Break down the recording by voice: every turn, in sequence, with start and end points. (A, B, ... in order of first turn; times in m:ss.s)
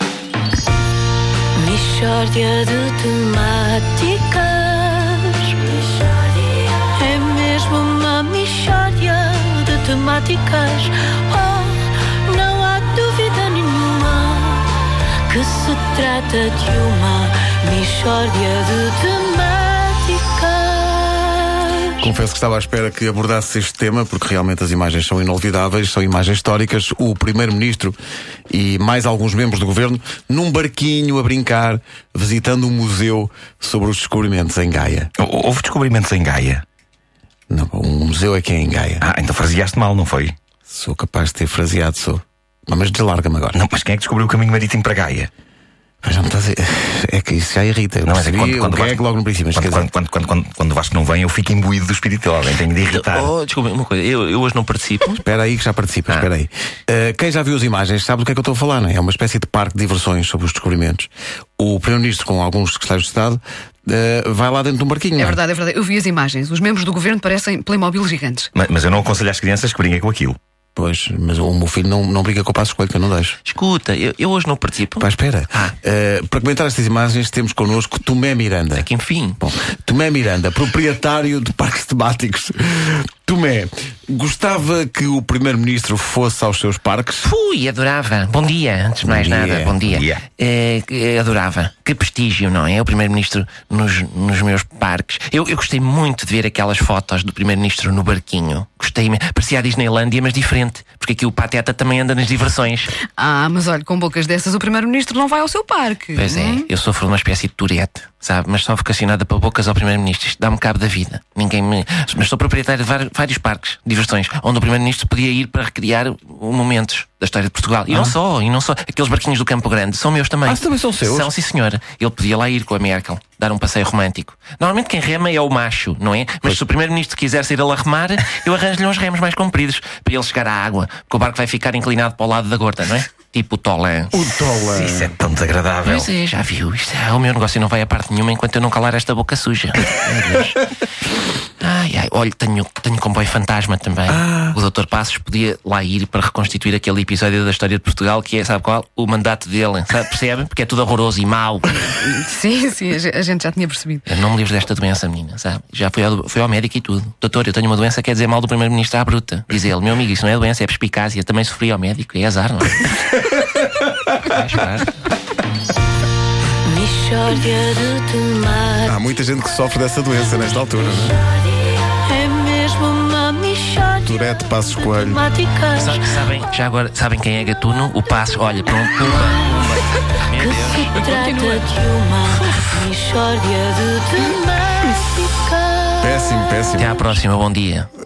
0:01.5-0:22.0 A
0:22.0-0:28.0 B
0:28.5-0:35.1 B
0:35.2-0:36.6 C
0:37.5-0:39.0 B
0:39.0-0:40.4 C
0:40.7-0:43.6 B
0:43.6-0:45.3 C
0:46.0-0:49.9 B
0:48.0-0:49.0 C
0:49.5-0:53.3 C
0:52.9-0:55.2 D
0:55.2-1:05.4 B
1:05.2-1:08.5 E
1:08.6-1:10.4 C
1:10.8-1:13.4 B
1:13.5-1:15.7 D
1:15.0-1:18.9 B
1:18.8-1:19.4 D
1:19.4-1:27.3 B
1:27.2-1:42.9 D
1:29.0-1:29.8 B
1:29.8-1:30.2 C
1:43.2-1:46.6 E
1:46.1-2:14.2 D
1:57.9-1:58.2 B
2:00.4-2:01.3 B
2:14.1-2:15.1 B
2:14.7-2:16.1 C
2:15.8-2:20.6 D
2:21.6-2:32.0 D
2:24.1-2:24.6 B
2:31.9-2:34.0 E
2:34.1-2:42.9 D
2:44.2-2:45.1 D
2:46.6-2:48.9 A
2:48.8-2:51.2 B
2:51.6-2:56.2 A
2:54.0-2:55.2 B
2:55.8-3:01.7 D
3:00.3-3:06.1 A
3:06.0-3:07.1 B
3:06.8-3:07.9 D